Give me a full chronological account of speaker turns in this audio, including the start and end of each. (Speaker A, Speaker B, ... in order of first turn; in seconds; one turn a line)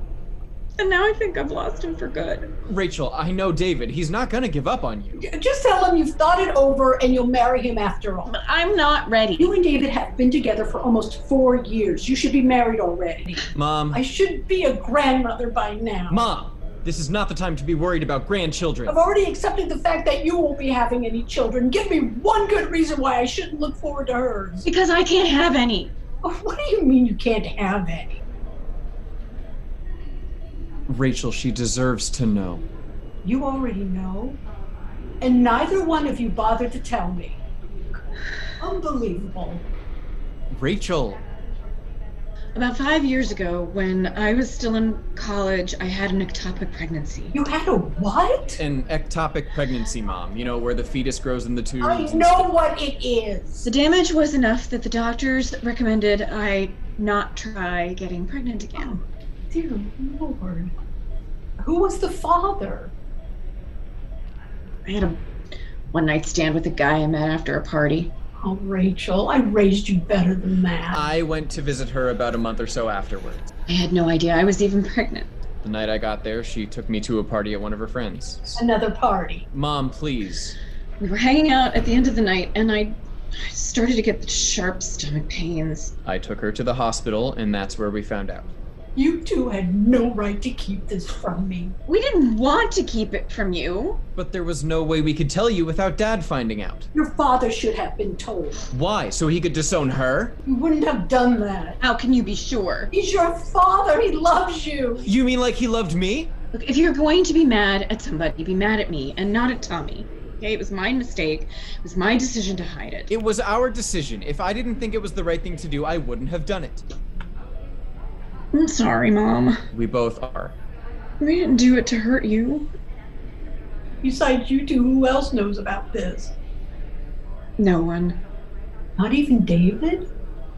Speaker A: 0.8-2.5
Speaker B: 2.7-5.2
Speaker C: 5.2-8.3
Speaker A: 8.2-9.6
Speaker C: 9.4-16.2
Speaker B: 13.5-14.0
Speaker B: 16.1-19.0
Speaker C: 18.9-24.7
Speaker A: 24.6-25.9
Speaker C: 26.2-28.2
Speaker B: 30.9-32.6
Speaker C: 33.2-34.4
Speaker C: 35.2-37.4
Speaker C: 38.6-39.6
Speaker B: 40.5-41.2
Speaker A: 42.5-47.3
Speaker C: 47.3-48.6
Speaker B: 48.6-52.5
Speaker C: 51.8-53.7
Speaker A: 53.6-59.0
Speaker C: 59.5-60.7
Speaker C: 61.6-62.9
Speaker A: 64.8-65.2
Speaker A: 65.9-68.1
Speaker C: 68.4-71.1
Speaker B: 70.9-73.5
Speaker A: 73.7-75.3
Speaker B: 75.6-78.6
Speaker C: 78.5-79.5
Speaker B: 79.5-80.6
Speaker A: 81.0-85.9
Speaker B: 86.0-88.5
Speaker C: 89.0-91.8
Speaker A: 91.9-94.0
Speaker B: 94.2-96.9
Speaker C: 96.9-98.6
Speaker B: 98.7-100.4
Speaker C: 100.4-101.8
Speaker A: 101.8-102.9
Speaker C: 102.9-105.1
Speaker B: 105.0-106.3
Speaker A: 106.5-113.1
Speaker B: 113.1-116.8
Speaker A: 118.5-119.6
Speaker B: 119.7-120.6
Speaker A: 121.2-122.7
Speaker C: 124.0-126.3
Speaker A: 127.6-128.2
Speaker C: 129.0-130.1